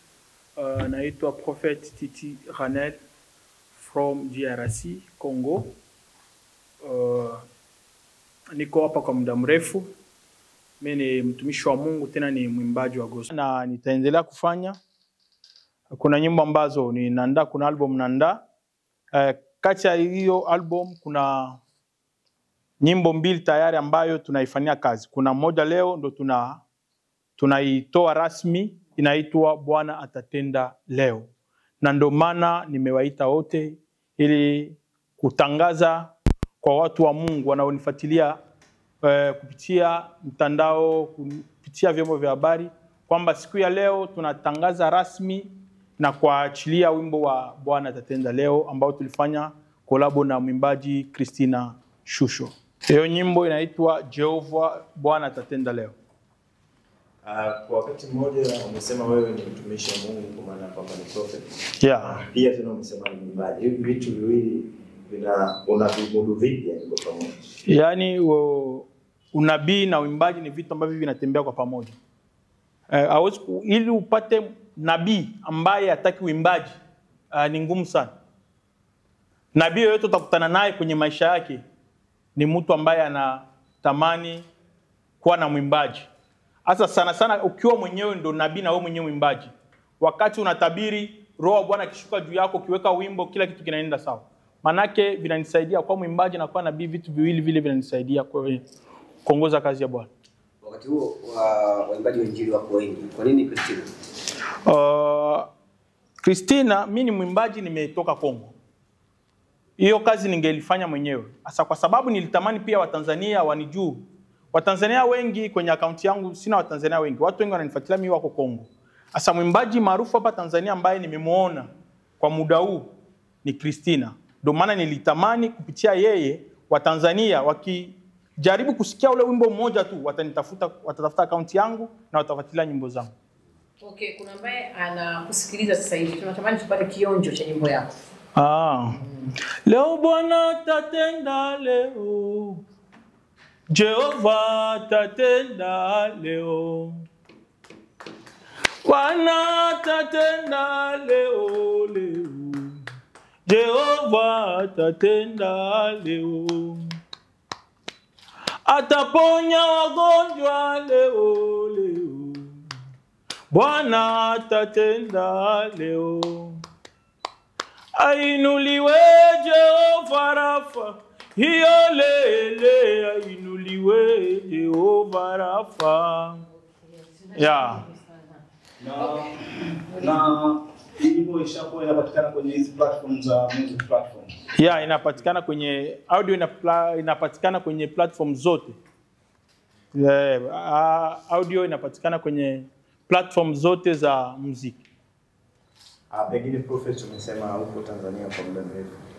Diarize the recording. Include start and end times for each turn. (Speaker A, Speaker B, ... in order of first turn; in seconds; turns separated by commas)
Speaker A: 0.6-3.0, Speaker A: 3.7-5.8, Speaker A: 6.8-7.4, Speaker A: 8.5-9.9, Speaker A: 10.8-14.8, Speaker A: 15.9-18.4, Speaker A: 19.1-21.6, Speaker A: 22.8-26.6, Speaker A: 27.4-31.3, Speaker A: 31.8-38.4, Speaker A: 39.0-55.9, Speaker B: 57.2-67.4, Speaker A: 61.8-62.2, Speaker A: 67.7-72.0, Speaker A: 72.9-76.8, Speaker A: 77.3-78.1, Speaker A: 79.5-81.6, Speaker A: 82.3-84.5, Speaker A: 85.2-86.1, Speaker A: 86.6-98.6, Speaker A: 99.2-100.1, Speaker C: 100.6-103.9, Speaker A: 104.7-105.5, Speaker A: 106.2-108.5, Speaker A: 109.8-121.7, Speaker A: 122.2-122.9, Speaker A: 123.4-133.1, Speaker D: 133.8-137.9, Speaker A: 138.3-139.0, Speaker D: 139.0-139.3, Speaker A: 139.7-142.6, Speaker A: 143.7-147.0, Speaker A: 148.8-152.8, Speaker A: 153.5-156.9, Speaker A: 158.7-162.6, Speaker A: 163.5-166.6, Speaker A: 167.9-176.4, Speaker D: 176.5-178.4, Speaker A: 177.3-177.8, Speaker E: 178.8-184.8, Speaker D: 178.9-180.2, Speaker A: 184.5-188.8, Speaker A: 189.9-194.8, Speaker B: 196.1-198.9